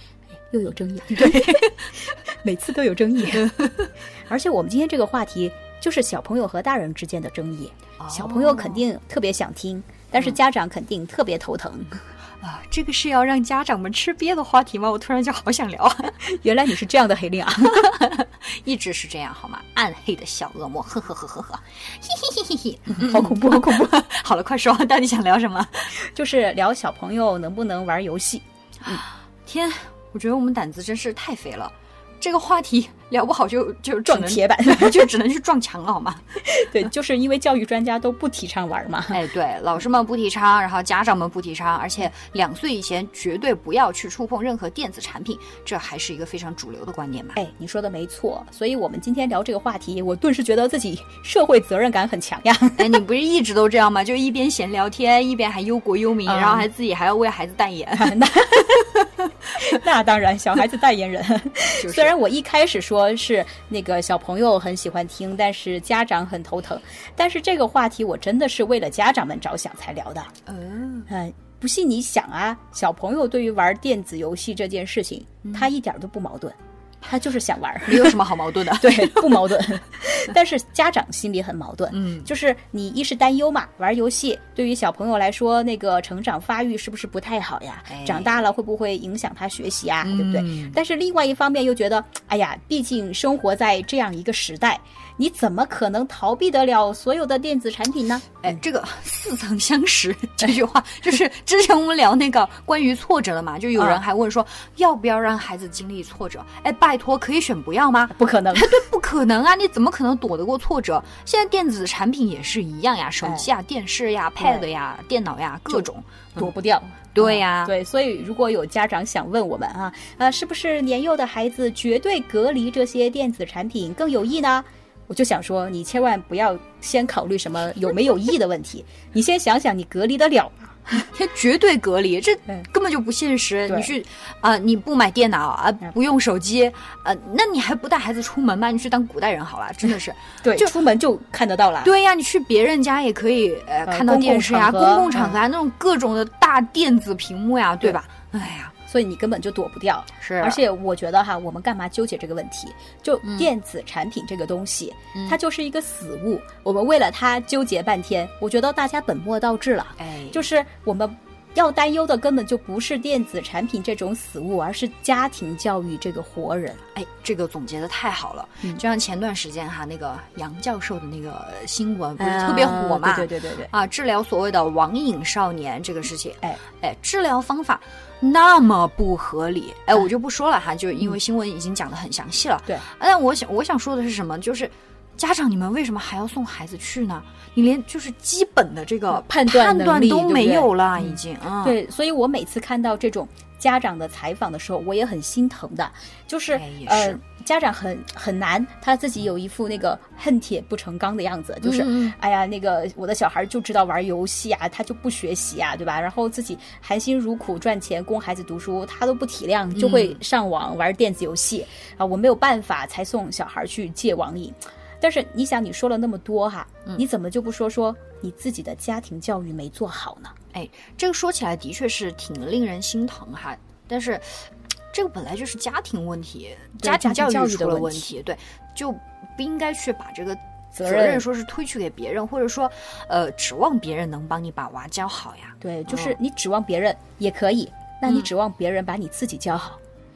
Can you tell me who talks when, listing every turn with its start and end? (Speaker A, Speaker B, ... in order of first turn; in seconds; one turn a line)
Speaker A: 0.5-3.6
Speaker B: 1.1-1.7
Speaker B: 3.6-3.8
Speaker A: 4.3-12.0
Speaker B: 8.0-8.8
Speaker B: 12.4-16.1
Speaker A: 16.2-17.9
Speaker B: 17.8-25.9
Speaker A: 22.9-24.0
Speaker A: 26.0-29.0
Speaker B: 28.8-36.2
Speaker A: 34.0-35.1
Speaker A: 36.4-39.2
Speaker B: 39.1-47.4
Speaker A: 47.4-53.0
Speaker B: 52.8-58.2
Speaker A: 56.2-56.7
Speaker A: 58.0-59.0
Speaker A: 59.5-70.3
Speaker B: 61.8-62.1
Speaker B: 70.5-71.1
Speaker A: 71.1-98.6
Speaker B: 75.4-75.7
Speaker B: 77.9-79.6
Speaker B: 81.9-82.3
Speaker B: 87.9-88.4
Speaker B: 90.0-90.8
Speaker B: 98.4-116.5
Speaker A: 108.1-108.8
Speaker A: 113.2-113.5
Speaker A: 114.4-114.7
Speaker A: 115.7-131.1
Speaker B: 117.1-117.7
Speaker B: 131.1-140.7
Speaker A: 140.4-141.9
Speaker B: 141.8-148.7
Speaker A: 143.8-145.4
Speaker A: 148.9-166.8
Speaker B: 150.2-150.6
Speaker B: 153.2-153.5
Speaker B: 160.0-160.4
Speaker B: 166.9-191.8
Speaker A: 172.2-173.7
Speaker A: 189.1-220.3
Speaker B: 196.5-197.2
Speaker B: 201.6-202.2
Speaker B: 209.7-210.2
Speaker B: 220.5-236.2
Speaker A: 226.8-228.1
Speaker A: 230.7-231.2
Speaker A: 235.6-239.8